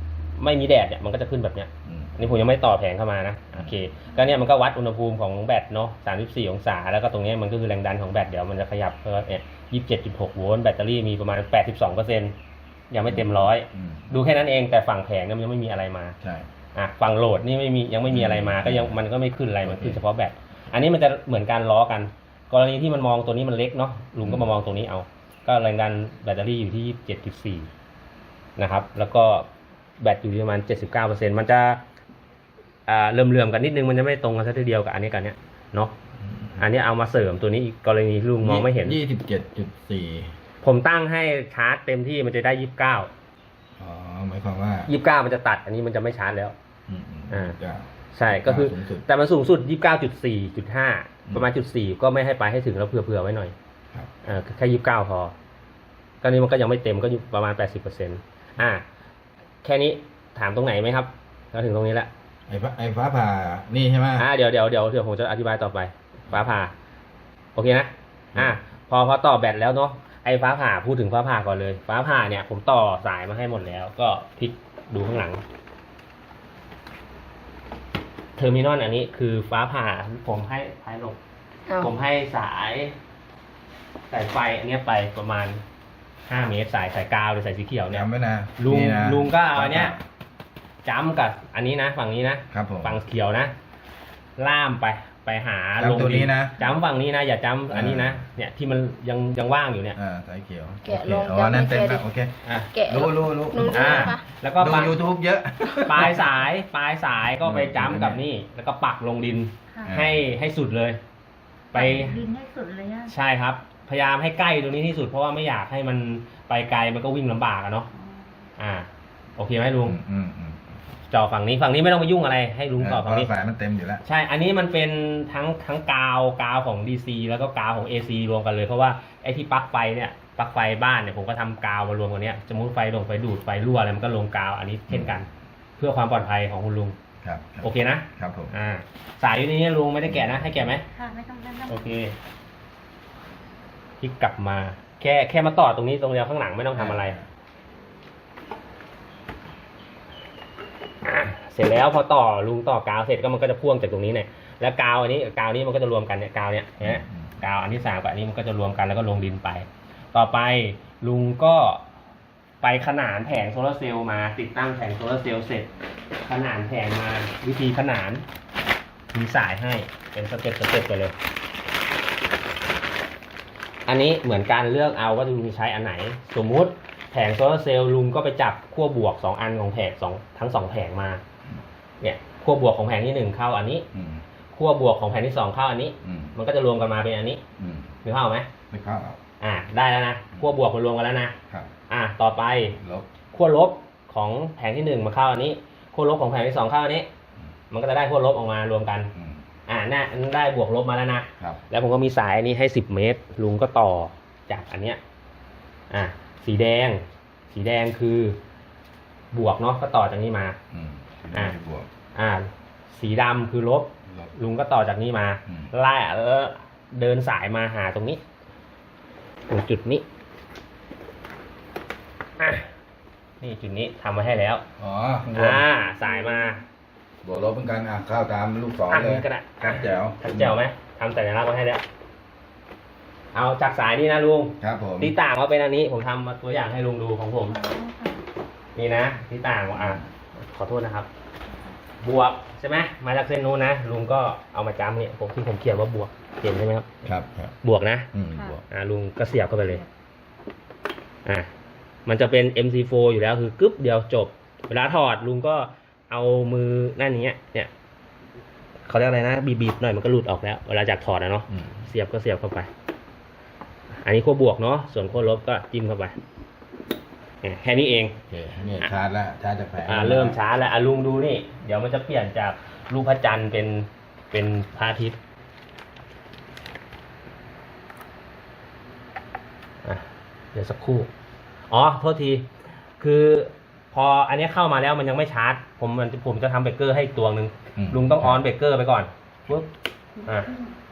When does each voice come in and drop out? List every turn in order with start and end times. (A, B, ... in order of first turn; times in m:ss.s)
0:00.4-0:12.3 A
0:01.8-0:02.2 B
0:12.9-0:16.2 A
0:13.1-0:14.1 B
0:16.2-0:16.5 B
0:16.7-0:27.7 A
0:18.1-0:19.0 B
0:19.6-0:20.0 B
0:28.6-0:29.5 A
0:30.0-0:31.8 A
0:32.9-0:35.9 A
0:36.2-0:36.6 B
0:36.6-0:39.0 A
0:38.4-0:40.3 B
0:40.6-0:43.1 A
0:43.8-0:44.9 B
0:44.9-0:46.5 A
0:46.9-0:49.0 B
0:47.3-0:47.6 A
0:48.1-0:53.5 A
0:54.2-0:55.3 A
0:56.2-0:58.8 A
0:59.6-1:02.1 A
1:02.5-1:04.3 B
1:04.2-1:06.7 A
1:07.6-1:15.4 A
1:18.4-1:21.2 A
1:21.7-1:21.9 C
1:21.8-1:23.0 A
1:24.1-1:25.6 A
1:26.3-1:28.0 A
1:27.9-1:30.0 B
1:28.6-1:29.9 A
1:30.8-1:33.5 A
1:32.5-1:33.0 B
1:34.4-1:40.0 A
1:35.8-1:36.5 B
1:37.7-1:38.2 B
1:40.0-1:42.3 B
1:40.8-1:42.0 C
1:42.4-1:42.7 A
1:42.7-1:44.2 C
1:42.8-1:46.4 B
1:43.6-1:45.0 A
1:45.8-1:51.0 A
1:47.4-1:48.2 B
1:49.8-1:50.2 B
1:51.7-1:52.2 A
1:51.7-1:53.1 D
1:51.8-1:52.1 B
1:53.1-1:57.9 A
1:57.9-1:58.3 D
1:58.6-2:00.0 A
1:59.8-2:00.7 B
2:01.1-2:03.3 A
2:02.8-2:04.0 B
2:04.0-2:15.3 A
2:14.9-2:15.2 B
2:15.8-2:17.0 A
2:17.2-2:18.5 B
2:17.6-2:20.8 A
2:20.1-2:20.7 B
2:20.8-2:22.0 D
2:21.7-2:22.1 A
2:24.0-2:27.2 A
2:26.7-2:27.3 B
2:31.0-2:41.8 A
2:36.8-2:37.3 B
2:42.6-2:45.7 A
2:46.2-2:48.2 A
2:49.1-2:51.1 A
2:53.9-3:01.2 A
3:02.0-3:03.8 A
3:03.9-3:04.2 B
3:04.5-3:07.4 A
3:06.0-3:06.3 B
3:07.6-3:07.9 B
3:08.0-3:08.5 A
3:08.7-3:09.2 B
3:09.4-3:11.3 A
3:11.9-3:12.8 A
3:12.7-3:13.1 B
3:13.3-3:17.1 A
3:17.7-3:19.1 A
3:19.1-3:19.4 B
3:19.7-3:25.0 A
3:25.9-3:28.4 A
3:29.3-3:30.6 A
3:30.7-3:31.9 B
3:32.1-3:38.2 A
3:34.1-3:34.3 B
3:35.5-3:35.7 B
3:39.5-3:40.0 A
3:42.4-3:42.7 A
3:43.4-3:44.6 A
3:44.8-3:45.6 B
3:45.3-3:46.6 A
3:47.2-3:50.6 B
3:48.9-3:51.8 A
3:53.3-3:57.6 A
3:54.6-3:55.1 B
3:57.5-3:58.2 D
3:58.8-4:01.1 A
3:59.7-4:00.0 B
4:01.5-4:01.8 D
4:02.0-4:06.9 A
4:07.0-4:07.5 B
4:07.6-4:08.1 A
4:08.1-4:08.6 B
4:08.7-4:09.8 A
4:12.0-4:17.7 A
4:18.9-4:22.7 A
4:24.0-4:26.1 A
4:27.4-4:28.2 A
4:28.3-4:30.4 B
4:29.8-4:35.2 A
4:39.8-4:41.1 A
4:41.7-4:42.5 A
4:43.0-4:49.7 A
4:47.8-4:48.4 B
4:50.1-4:50.7 D